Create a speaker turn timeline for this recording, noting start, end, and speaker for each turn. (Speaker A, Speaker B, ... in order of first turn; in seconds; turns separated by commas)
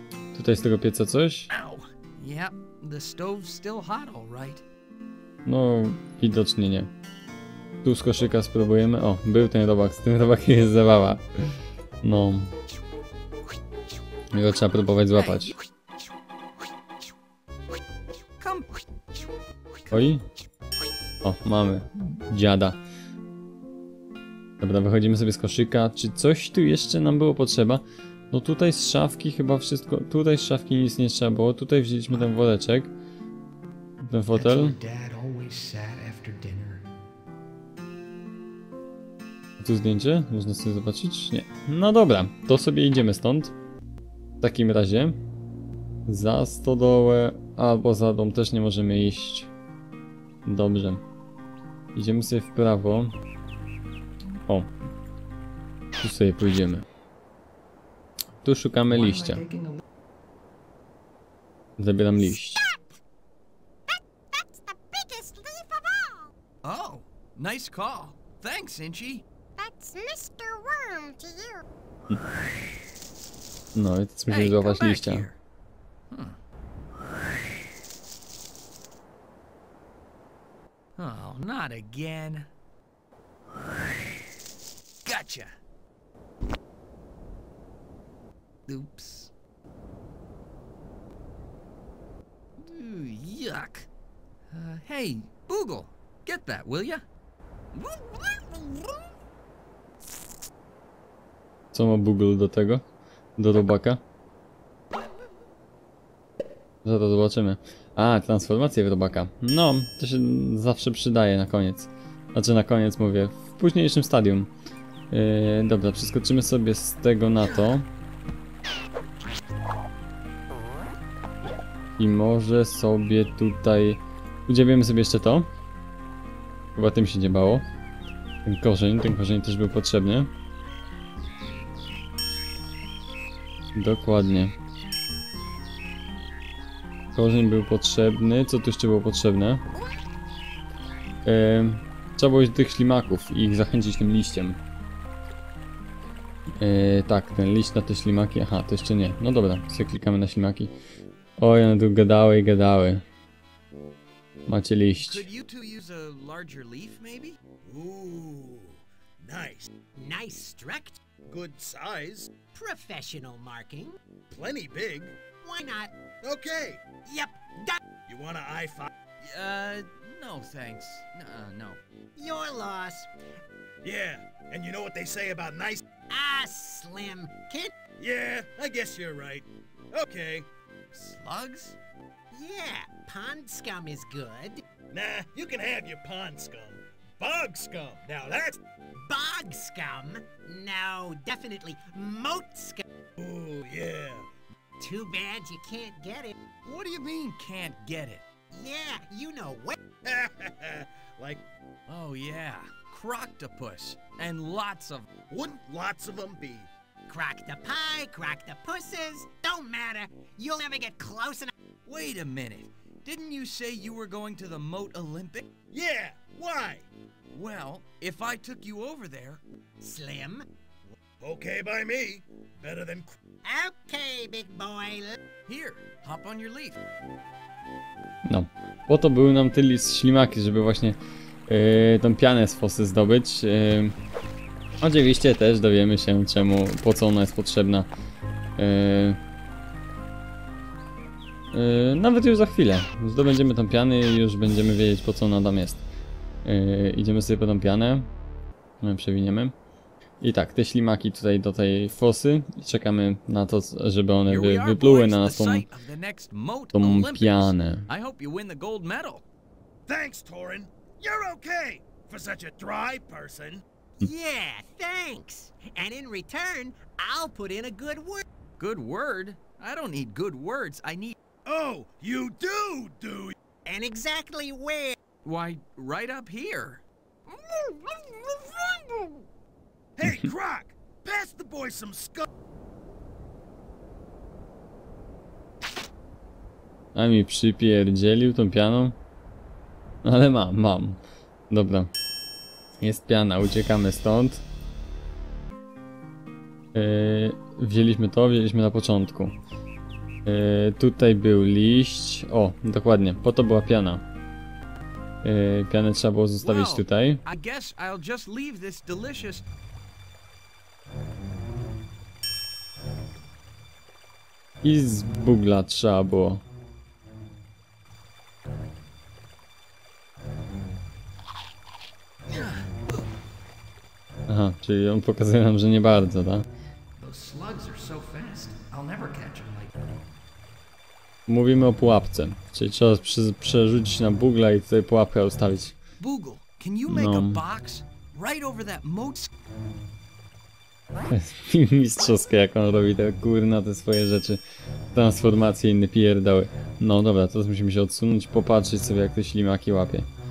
Speaker A: 0.3-1.5, Speaker B: 1.5-4.7, Speaker A: 5.5-6.9, Speaker A: 7.8-12.5, Speaker A: 14.3-15.5, Speaker B: 15.1-15.7, Speaker B: 18.4-18.8, Speaker A: 19.9-20.2, Speaker A: 21.2-22.8, Speaker A: 24.6-32.9, Speaker A: 34.0-34.8, Speaker B: 34.3-36.9, Speaker A: 39.6-43.5, Speaker A: 44.4-45.2, Speaker A: 46.1-49.5, Speaker A: 50.5-51.0, Speaker A: 52.0-53.1, Speaker A: 56.0-56.9, Speaker A: 58.4-59.4, Speaker B: 58.9-59.8, Speaker A: 61.8-62.6, Speaker C: 62.2-62.9, Speaker C: 63.9-66.3, Speaker B: 66.6-69.2, Speaker C: 69.6-71.6, Speaker A: 73.8-75.3, Speaker B: 74.3-75.4, Speaker B: 76.1-76.4, Speaker B: 81.0-82.5, Speaker B: 85.0-85.6, Speaker B: 88.7-89.3, Speaker B: 92.6-93.9, Speaker B: 94.5-97.0, Speaker B: 97.7-98.4, Speaker A: 101.7-102.8, Speaker A: 103.4-104.0, Speaker A: 106.8-114.5, Speaker A: 115.1-117.9, Speaker A: 122.0-125.5, Speaker A: 126.8-127.7, Speaker A: 128.4-130.3, Speaker A: 133.8-134.5, Speaker A: 137.2-139.6, Speaker A: 141.2-144.6, Speaker A: 146.6-150.7, Speaker A: 151.4-153.0, Speaker A: 154.5-155.3, Speaker B: 155.0-157.4, Speaker D: 157.6-159.7, Speaker E: 160.0-161.0, Speaker D: 161.3-162.3, Speaker E: 162.5-164.0, Speaker D: 164.3-165.2, Speaker E: 165.4-165.9, Speaker D: 166.2-166.9, Speaker E: 167.0-167.8, Speaker D: 168.1-168.9, Speaker B: 169.2-171.8, Speaker E: 172.2-173.1, Speaker D: 173.8-175.8, Speaker E: 176.1-177.7, Speaker D: 178.0-180.5, Speaker B: 180.9-181.8, Speaker E: 182.3-184.6, Speaker D: 184.9-188.6, Speaker E: 189.0-192.8, Speaker D: 193.2-194.3, Speaker E: 194.8-196.4, Speaker B: 196.6-198.2, Speaker E: 198.5-199.8, Speaker D: 200.0-201.4, Speaker B: 201.9-205.1, Speaker D: 205.3-206.7, Speaker E: 207.1-211.5, Speaker B: 211.9-215.5, Speaker D: 215.7-216.9, Speaker B: 217.3-219.4, Speaker E: 219.8-220.5, Speaker D: 221.2-223.1, Speaker E: 223.4-225.2, Speaker B: 225.5-226.8, Speaker A: 228.2-233.9, Speaker A: 234.8-237.9, Speaker A: 238.6-239.2, Speaker A: 241.5-245.8, Speaker A: 246.4-248.1, Speaker A: 248.8-249.5, Speaker A: 250.2-255.7, Speaker B: 254.3-259.2, Speaker A: 256.8-257.9, Speaker D: 259.9-263.6, Speaker E: 264.0-268.2, Speaker B: 268.6-271.2, Speaker D: 271.4-273.4, Speaker E: 273.6-275.0, Speaker B: 275.2-279.3, Speaker D: 280.0-282.3, Speaker A: 286.9-288.9, Speaker A: 290.0-291.0, Speaker A: 291.5-291.9, Speaker A: 292.8-294.4, Speaker A: 296.7-299.4, Speaker A: 300.3-304.0, Speaker A: 305.2-307.2, Speaker B: 306.4-309.4, Speaker A: 314.6-316.4, Speaker B: 322.3-323.1, Speaker A: 324.3-326.5, Speaker B: 327.0-329.8, Speaker A: 331.3-335.8, Speaker B: 336.0-339.3, Speaker A: 336.9-337.4, Speaker A: 341.1-344.4, Speaker A: 344.9-350.1